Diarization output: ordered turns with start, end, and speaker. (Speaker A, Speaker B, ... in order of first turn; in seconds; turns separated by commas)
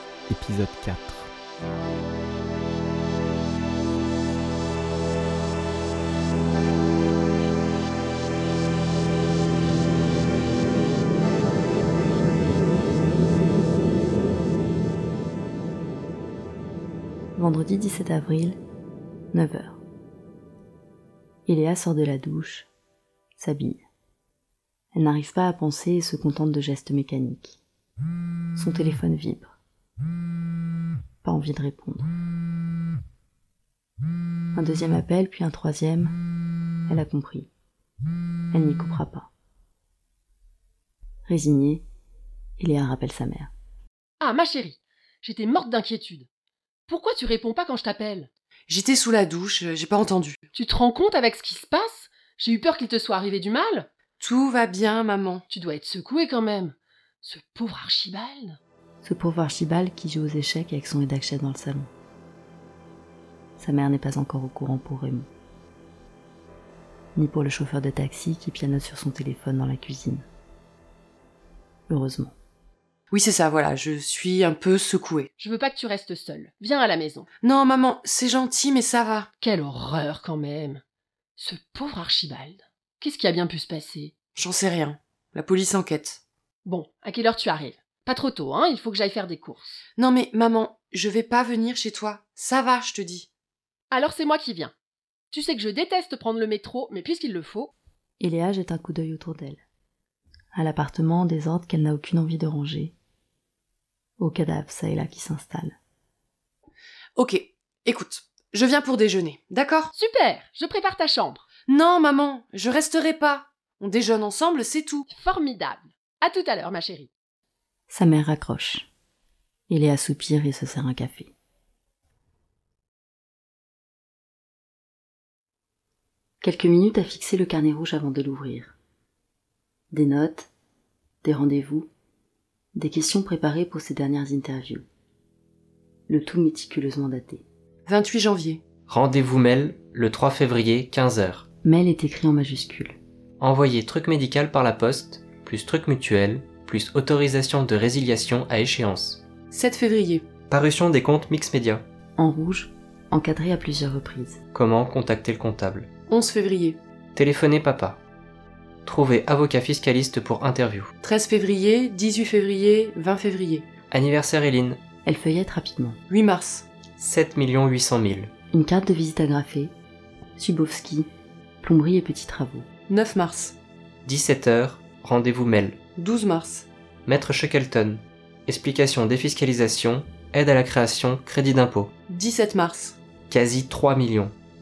Speaker A: 17.4-18.6, Speaker A: 19.3-19.8, Speaker A: 21.5-22.7, Speaker A: 23.4-23.8, Speaker A: 24.9-27.6, Speaker A: 28.6-29.6, Speaker A: 31.2-32.1, Speaker A: 34.5-36.2, Speaker A: 36.9-37.5, Speaker A: 38.5-39.3, Speaker A: 41.3-41.9, Speaker A: 42.6-43.5, Speaker B: 44.2-46.3, Speaker B: 46.9-48.3, Speaker C: 48.7-50.4, Speaker B: 50.5-53.9, Speaker C: 54.2-55.4, Speaker B: 55.5-58.6, Speaker A: 59.0-61.9, Speaker A: 63.6-65.3, Speaker A: 67.2-70.3, Speaker A: 71.9-72.3, Speaker C: 73.1-75.3, Speaker B: 75.4-77.3, Speaker C: 77.4-79.3, Speaker B: 79.4-80.8, Speaker B: 81.4-84.1, Speaker C: 84.3-86.2, Speaker B: 86.7-89.8, Speaker C: 90.0-93.3, Speaker B: 93.9-94.7, Speaker B: 95.3-97.7, Speaker A: 98.2-99.6, Speaker A: 100.5-102.9, Speaker A: 104.2-105.8, Speaker C: 107.2-109.9, Speaker B: 109.9-111.5, Speaker C: 111.7-115.1, Speaker B: 115.1-117.1, Speaker A: 117.9-118.9, Speaker A: 119.7-121.3, Speaker A: 126.4-128.8, Speaker A: 129.9-130.5, Speaker A: 131.2-131.9, Speaker A: 132.8-134.9, Speaker A: 136.1-137.4, Speaker C: 137.9-138.6, Speaker D: 138.9-141.5, Speaker A: 141.6-143.0, Speaker D: 143.4-149.2, Speaker C: 149.5-150.3, Speaker D: 150.5-151.9, Speaker A: 152.2-154.4, Speaker D: 154.5-155.9, Speaker C: 156.1-156.8, Speaker D: 157.2-158.0, Speaker D: 158.9-160.9, Speaker C: 161.0-163.7, Speaker D: 163.9-164.8, Speaker A: 165.1-166.0, Speaker C: 166.1-166.7, Speaker D: 167.0-168.3, Speaker A: 168.5-169.7, Speaker A: 170.4-171.1, Speaker A: 171.6-172.7, Speaker C: 172.9-173.6, Speaker D: 174.1-175.8, Speaker C: 176.0-176.7, Speaker D: 177.1-181.9, Speaker C: 182.1-183.0, Speaker D: 183.3-184.3